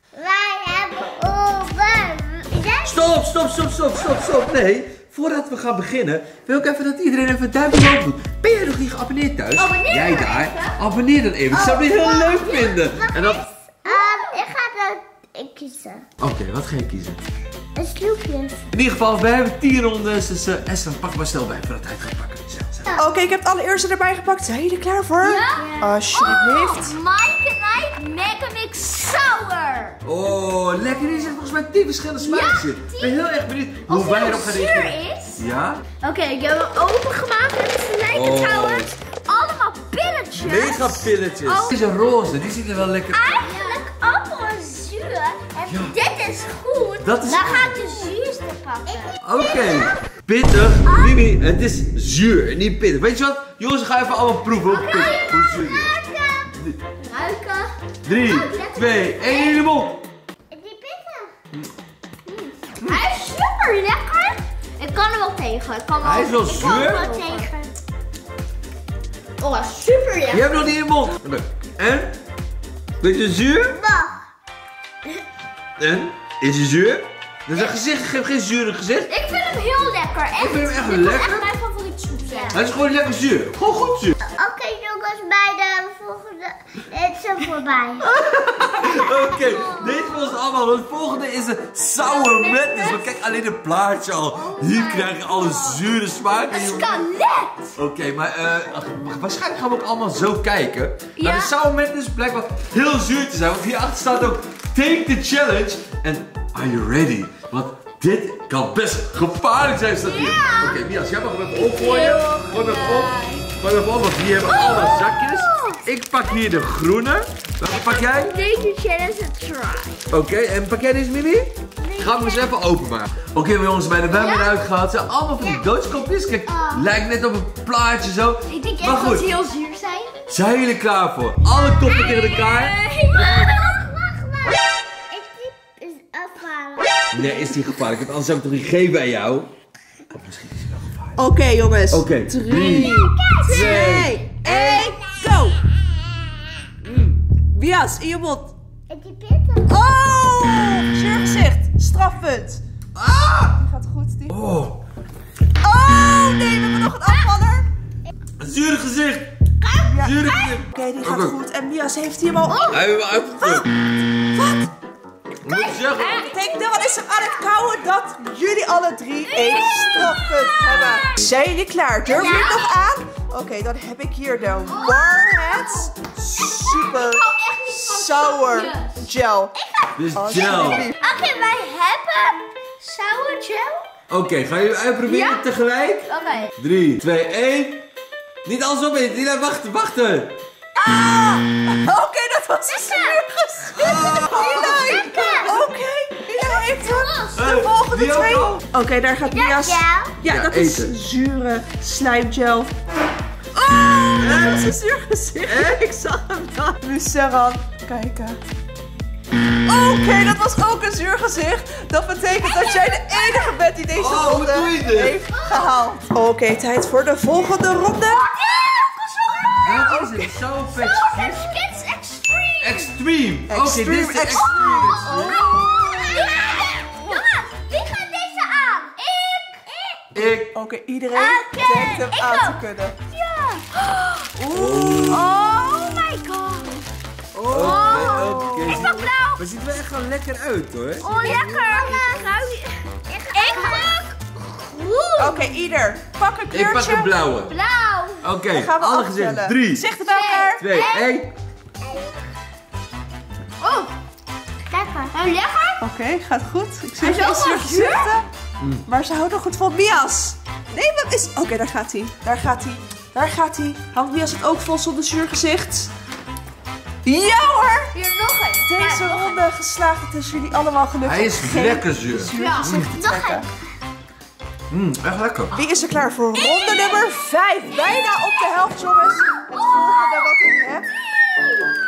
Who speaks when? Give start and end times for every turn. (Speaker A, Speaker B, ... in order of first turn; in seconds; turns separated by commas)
Speaker A: 0.1-3.1, Speaker B: 2.8-13.4, Speaker C: 9.6-10.8, Speaker A: 11.5-16.1, Speaker C: 13.8-14.5, Speaker B: 16.2-17.2, Speaker A: 17.8-18.7, Speaker B: 18.7-22.9, Speaker D: 22.9-27.0, Speaker C: 25.2-30.0, Speaker A: 25.4-25.9, Speaker B: 30.0-35.8, Speaker C: 32.2-35.4, Speaker C: 36.0-41.8, Speaker B: 38.1-38.9, Speaker B: 40.4-43.3, Speaker C: 43.1-49.1, Speaker A: 43.3-44.6, Speaker A: 45.5-45.9, Speaker B: 45.6-46.0, Speaker B: 47.0-47.8, Speaker A: 48.9-50.0, Speaker B: 49.2-56.0, Speaker C: 50.9-51.2, Speaker C: 54.6-55.5, Speaker A: 55.5-56.5, Speaker C: 57.0-59.6, Speaker B: 58.0-60.0, Speaker A: 60.5-61.3, Speaker C: 62.3-67.5, Speaker B: 66.0-67.1, Speaker A: 66.5-67.7, Speaker C: 69.4-70.5, Speaker B: 70.3-72.1, Speaker B: 73.0-73.8, Speaker A: 73.7-74.2, Speaker B: 75.8-79.1, Speaker C: 79.1-82.6, Speaker B: 80.3-81.4, Speaker A: 82.1-82.6, Speaker B: 82.5-84.2, Speaker A: 84.2-88.1, Speaker B: 88.0-97.0, Speaker A: 89.2-89.9, Speaker C: 92.1-93.0, Speaker C: 94.3-95.8, Speaker C: 96.5-97.7, Speaker B: 97.8-118.3, Speaker C: 101.2-101.5, Speaker C: 110.0-110.8, Speaker C: 111.5-113.5, Speaker C: 114.4-115.8, Speaker C: 117.7-120.0, Speaker A: 118.2-118.6, Speaker B: 120.1-129.3, Speaker A: 121.8-122.5, Speaker A: 124.2-124.5, Speaker C: 128.5-130.2, Speaker B: 130.3-132.8, Speaker C: 131.6-134.2, Speaker A: 133.1-133.5, Speaker A: 135.1-137.2, Speaker B: 137.1-139.5, Speaker B: 140.1-141.2, Speaker D: 141.2-145.6, Speaker B: 141.9-144.2, Speaker A: 142.6-145.2, Speaker B: 146.8-147.2, Speaker D: 147.5-148.5, Speaker A: 148.9-149.9, Speaker D: 149.7-152.6, Speaker B: 152.9-153.6, Speaker D: 153.5-154.4, Speaker B: 154.3-154.8, Speaker D: 155.6-157.7, Speaker C: 157.1-157.3, Speaker B: 158.4-159.4, Speaker C: 159.6-160.6, Speaker D: 159.8-162.8, Speaker B: 160.0-161.3, Speaker C: 162.5-162.8, Speaker B: 162.7-163.7, Speaker D: 163.4-164.7, Speaker B: 165.4-166.2, Speaker C: 165.4-167.4, Speaker D: 166.2-179.5, Speaker C: 169.2-171.2, Speaker A: 172.1-172.7, Speaker C: 172.1-172.8, Speaker C: 174.7-175.9, Speaker C: 176.5-179.1, Speaker A: 179.6-179.9, Speaker B: 179.9-180.9, Speaker D: 180.1-181.0, Speaker C: 181.0-183.9, Speaker B: 184.1-187.9, Speaker C: 185.0-185.4, Speaker C: 186.1-186.5, Speaker B: 188.4-190.4, Speaker D: 190.8-202.7, Speaker B: 193.7-194.9, Speaker A: 194.3-195.5, Speaker C: 195.1-195.4, Speaker C: 196.4-197.3, Speaker B: 197.3-198.6, Speaker A: 199.3-200.2, Speaker B: 200.3-200.9, Speaker D: 203.5-208.4, Speaker B: 204.2-204.7, Speaker B: 205.5-206.1, Speaker D: 209.6-218.2, Speaker C: 212.5-213.6, Speaker B: 213.9-215.2, Speaker C: 215.3-215.7, Speaker C: 217.6-220.0, Speaker B: 219.6-221.4, Speaker D: 219.9-220.1, Speaker C: 220.7-222.9, Speaker B: 222.6-225.4, Speaker D: 223.5-226.4, Speaker C: 224.5-230.0, Speaker A: 225.3-227.0, Speaker B: 230.1-230.5, Speaker D: 230.5-232.9, Speaker C: 231.1-236.9, Speaker B: 234.4-235.3, Speaker B: 237.3-242.2, Speaker C: 237.5-239.4, Speaker A: 237.9-238.2, Speaker D: 238.2-238.8, Speaker C: 241.0-245.6, Speaker A: 241.0-242.3, Speaker A: 243.1-244.0, Speaker D: 245.2-247.1, Speaker B: 246.5-247.6, Speaker C: 247.4-248.3, Speaker B: 248.2-249.9, Speaker D: 248.5-250.8, Speaker C: 250.0-251.2, Speaker B: 250.6-251.3, Speaker A: 251.8-252.2, Speaker C: 253.6-253.9, Speaker A: 254.7-255.2, Speaker C: 255.1-255.8, Speaker D: 255.8-258.2, Speaker C: 257.0-258.1, Speaker B: 258.6-258.8, Speaker D: 258.9-265.9, Speaker D: 267.0-267.9, Speaker C: 267.9-269.4, Speaker D: 268.6-273.5, Speaker B: 271.0-272.9, Speaker C: 272.3-272.8, Speaker A: 272.9-273.4, Speaker B: 274.7-275.6, Speaker D: 275.5-280.9, Speaker C: 276.3-277.2, Speaker C: 277.7-278.2, Speaker C: 279.4-281.7